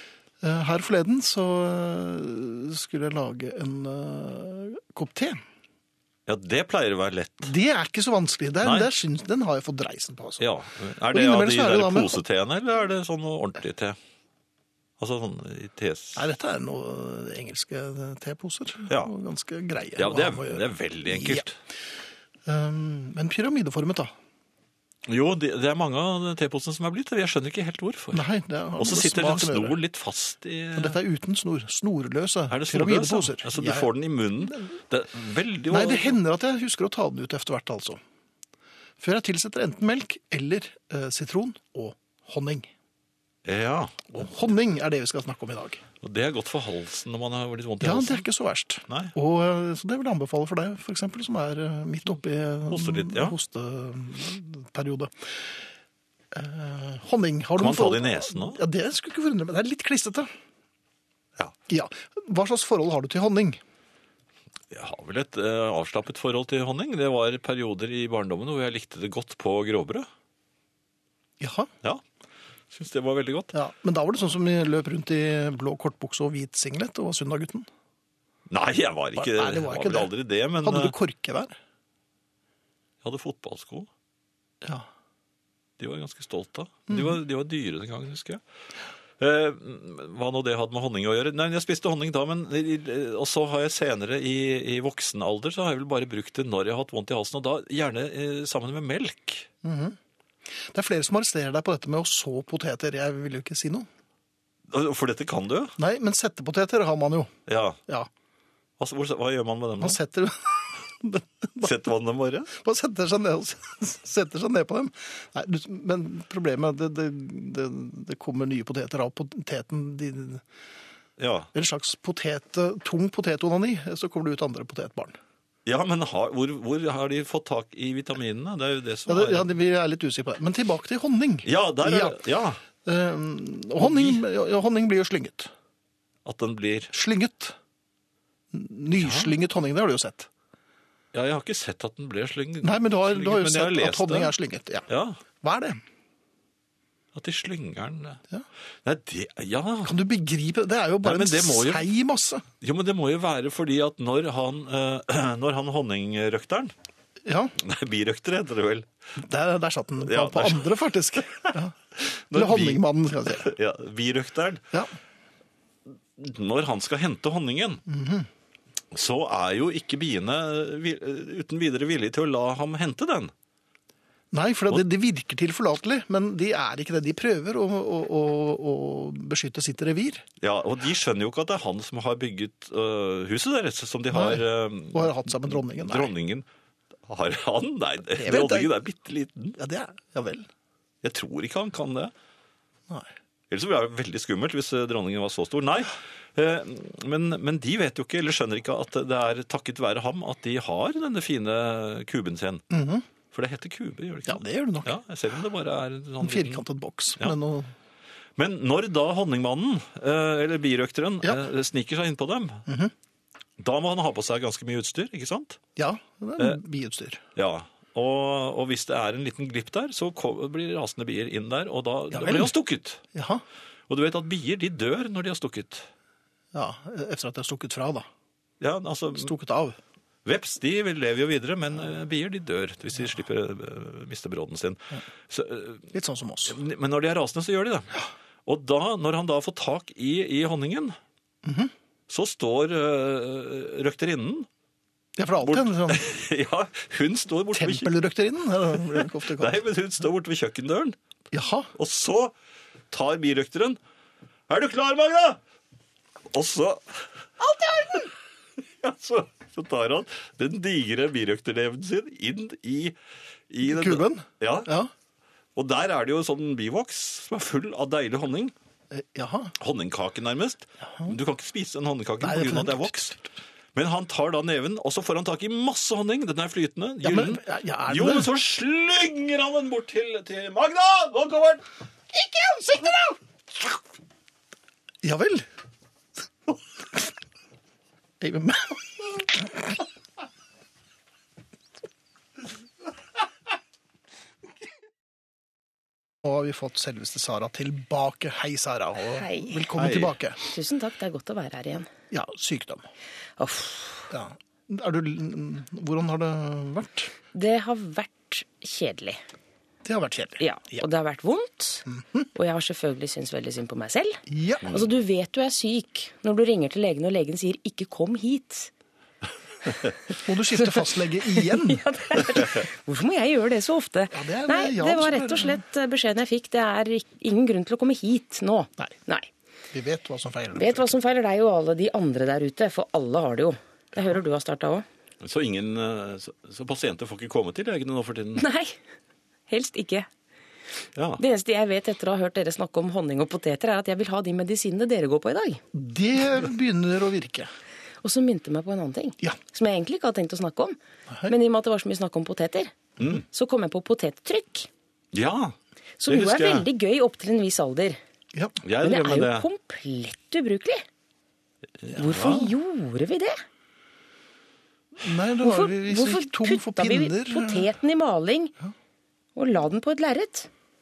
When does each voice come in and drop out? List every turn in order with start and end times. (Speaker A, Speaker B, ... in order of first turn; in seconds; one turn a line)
Speaker A: 0.4-5.4
Speaker B: 6.3-7.5
Speaker A: 7.4-10.4
Speaker B: 8.6-8.9
Speaker B: 10.4-14.0
Speaker A: 11.1-12.2
Speaker B: 15.0-16.2
Speaker A: 16.1-21.5
Speaker B: 20.0-21.6
Speaker A: 22.5-24.1
Speaker B: 25.1-28.3
Speaker A: 28.1-29.8
Speaker B: 28.8-31.0
Speaker A: 30.8-33.9
Speaker B: 32.5-36.2
Speaker A: 34.5-34.8
Speaker A: 35.7-38.0
Speaker A: 39.0-42.7
Speaker B: 43.5-44.1
Speaker A: 44.1-45.8
Speaker B: 46.0-48.2
Speaker A: 47.8-55.5
Speaker B: 48.9-49.1
Speaker B: 52.7-53.4
Speaker A: 56.3-60.3
Speaker B: 57.6-58.6
Speaker A: 61.7-63.6
Speaker B: 64.7-70.1
Speaker A: 71.4-71.7
Speaker B: 72.7-73.5
Speaker A: 73.5-77.7
Speaker B: 78.5-81.0
Speaker A: 79.2-81.6
Speaker B: 83.0-83.9
Speaker B: 85.8-88.4
Speaker A: 86.9-87.2
Speaker B: 89.2-99.5
Speaker A: 99.6-100.0
Speaker A: 100.6-103.9
Speaker B: 104.7-105.8
Speaker A: 105.8-107.3
Speaker B: 107.5-107.8
Speaker B: 108.8-110.0
Speaker A: 109.8-111.7
Speaker B: 111.6-112.5
Speaker A: 112.5-120.4
Speaker B: 121.2-121.5
Speaker A: 121.5-125.2
Speaker B: 125.7-129.5
Speaker A: 129.1-132.2
Speaker B: 131.4-132.6
Speaker A: 132.8-135.5
Speaker B: 133.8-134.2
Speaker B: 136.2-136.9
Speaker A: 136.9-137.6
Speaker A: 138.5-140.3
Speaker B: 138.9-139.3
Speaker B: 141.1-144.3
Speaker A: 142.6-144.9
Speaker B: 144.9-145.2
Speaker A: 145.4-145.8
Speaker B: 147.1-148.2
Speaker B: 148.8-149.9
Speaker A: 149.8-152.5
Speaker B: 151.0-151.9
Speaker B: 152.6-156.7
Speaker A: 157.2-157.6
Speaker B: 157.6-158.9
Speaker A: 159.2-161.8
Speaker B: 160.0-164.6
Speaker A: 162.3-163.5
Speaker B: 166.2-167.8
Speaker A: 167.9-168.3
Speaker B: 168.9-173.3
Speaker A: 174.3-180.2
Speaker B: 180.4-186.5
Speaker A: 184.1-186.1
Speaker B: 187.1-189.6
Speaker A: 188.1-188.7
Speaker A: 189.6-190.5
Speaker B: 191.0-192.1
Speaker B: 193.5-202.6
Speaker A: 202.7-203.1
Speaker B: 203.3-206.6
Speaker A: 204.2-205.0
Speaker A: 206.2-207.7
Speaker B: 208.4-212.6
Speaker A: 212.7-212.9
Speaker B: 213.6-215.6
Speaker A: 215.8-217.2
Speaker B: 217.3-223.0
Speaker A: 222.1-222.5
Speaker A: 223.1-223.4
Speaker B: 223.9-225.9
Speaker A: 226.5-228.1
Speaker B: 228.6-229.3
Speaker A: 229.1-229.8
Speaker B: 230.2-235.9
Speaker A: 235.9-236.6
Speaker B: 236.5-237.9
Speaker B: 238.5-241.0
Speaker A: 241.4-241.7
Speaker B: 242.1-244.5
Speaker A: 245.2-246.0
Speaker B: 245.4-247.9
Speaker A: 247.5-249.6
Speaker B: 248.9-251.0
Speaker A: 251.3-251.7
Speaker B: 251.8-252.3
Speaker B: 252.9-253.8
Speaker B: 254.5-255.4
Speaker B: 256.3-257.1
Speaker B: 258.6-263.0
Speaker B: 263.5-264.7
Speaker A: 263.6-264.9
Speaker B: 265.6-268.5
Speaker A: 268.9-269.6
Speaker B: 269.6-273.2
Speaker A: 270.8-271.1
Speaker A: 272.2-273.2
Speaker B: 273.7-281.6
Speaker A: 277.0-278.3
Speaker B: 282.2-283.1
Speaker A: 285.0-285.5
Speaker A: 288.2-289.8
Speaker A: 296.2-300.4
Speaker C: 299.1-299.6
Speaker B: 299.8-300.1
Speaker C: 300.5-301.9
Speaker A: 302.1-302.9
Speaker C: 303.4-304.1
Speaker A: 304.1-307.1
Speaker C: 307.3-309.2
Speaker A: 309.9-310.8
Speaker C: 310.4-318.7
Speaker A: 311.9-312.2
Speaker A: 314.3-314.7
Speaker A: 320.2-321.8
Speaker C: 320.5-329.3
Speaker A: 324.1-325.6
Speaker A: 329.7-330.9
Speaker C: 330.6-334.9
Speaker B: 335.2-338.4
Speaker C: 338.4-338.8
Speaker C: 339.5-340.1
Speaker B: 340.9-341.2
Speaker C: 341.2-345.6
Speaker A: 345.7-347.5
Speaker C: 348.0-350.8
Speaker C: 351.3-354.7
Speaker B: 355.1-355.6
Speaker C: 356.0-358.0
Speaker B: 356.1-356.7
Speaker A: 358.3-358.6
Speaker B: 358.6-359.5
Speaker C: 358.8-360.8
Speaker B: 361.8-362.5
Speaker C: 361.9-363.4
Speaker A: 365.0-367.7
Speaker C: 365.4-368.5
Speaker C: 369.4-370.5